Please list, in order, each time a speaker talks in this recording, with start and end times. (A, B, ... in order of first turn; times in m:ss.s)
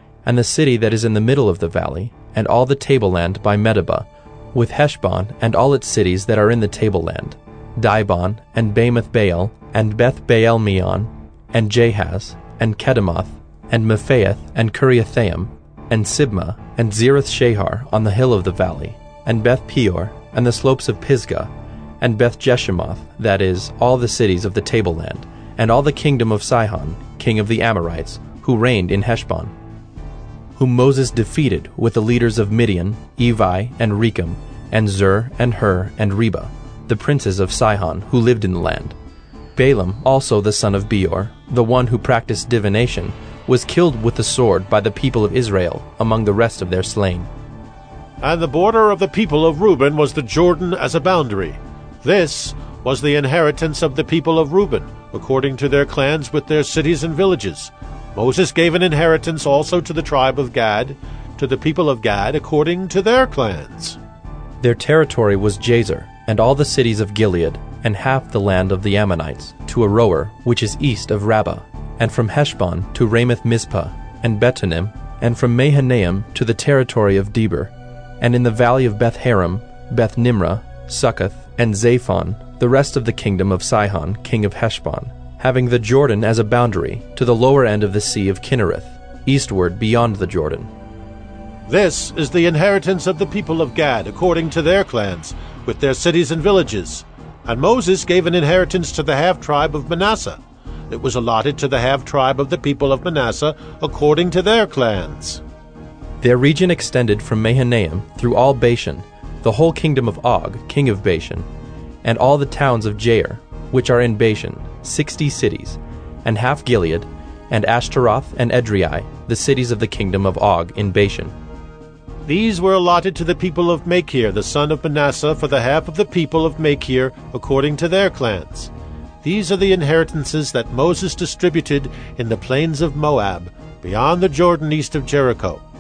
0:00.2-0:29.5 A
0:30.6-0:39.0 A
0:39.6-0:47.3 A
0:48.2-1:04.0 B
1:04.6-1:30.7 A
1:31.7-1:45.4 B
1:46.2-1:51.5 A
1:52.0-2:01.3 A
2:02.3-2:08.7 B
2:09.2-2:15.6 B